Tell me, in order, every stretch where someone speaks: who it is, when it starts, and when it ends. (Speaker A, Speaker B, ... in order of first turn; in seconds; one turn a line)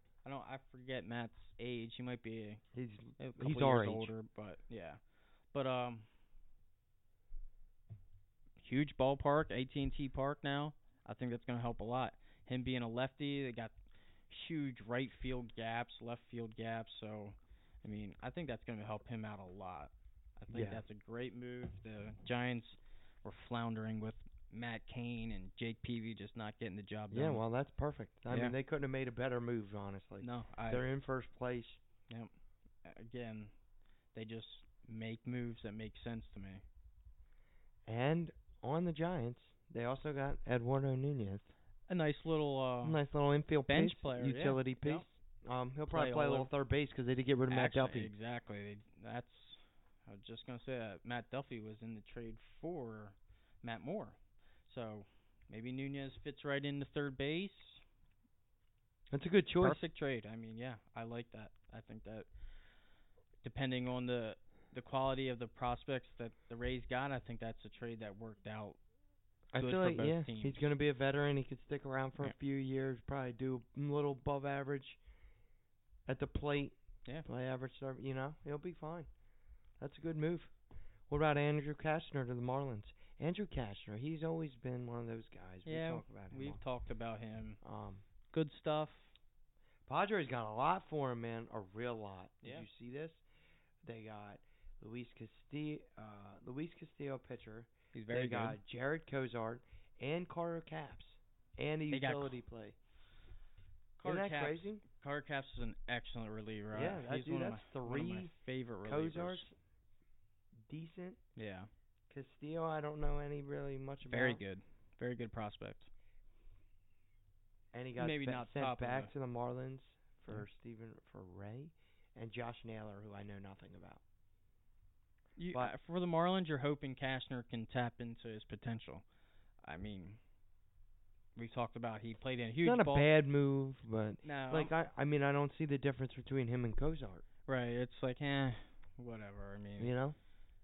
Speaker A: 0.2-2.6
Speaker B: 2.7-4.1
Speaker A: 3.2-6.1
Speaker A: 8.6-13.7
Speaker A: 14.3-27.4
Speaker B: 20.5-20.8
Speaker B: 27.1-31.8
Speaker A: 28.3-28.5
Speaker A: 30.2-30.8
Speaker A: 32.8-33.5
Speaker A: 34.1-36.6
Speaker B: 37.9-41.5
Speaker A: 41.9-43.0
Speaker B: 42.8-48.1
Speaker A: 43.7-45.0
Speaker A: 45.9-46.5
Speaker A: 47.5-57.8
Speaker B: 59.1-59.8
Speaker A: 59.6-62.3
Speaker A: 63.4-68.8
Speaker B: 69.5-75.0
Speaker A: 69.5-70.6
Speaker B: 76.0-79.1
Speaker B: 79.8-80.5
Speaker B: 81.1-86.6
Speaker A: 85.7-87.6
Speaker B: 87.6-88.0
Speaker A: 88.3-89.1
Speaker B: 89.9-93.2
Speaker B: 93.8-102.8
Speaker A: 97.9-98.6
Speaker A: 101.9-102.4
Speaker A: 104.0-109.5
Speaker B: 104.0-104.8
Speaker B: 106.7-109.5
Speaker B: 110.6-111.2
Speaker A: 111.3-111.7
Speaker B: 112.1-114.4
Speaker A: 114.1-115.9
Speaker B: 117.7-124.0
Speaker A: 118.0-119.1
Speaker A: 125.4-129.0
Speaker A: 129.6-130.2
Speaker A: 131.3-133.1
Speaker B: 132.6-137.2
Speaker A: 134.2-134.7
Speaker A: 137.5-139.9
Speaker B: 139.8-140.2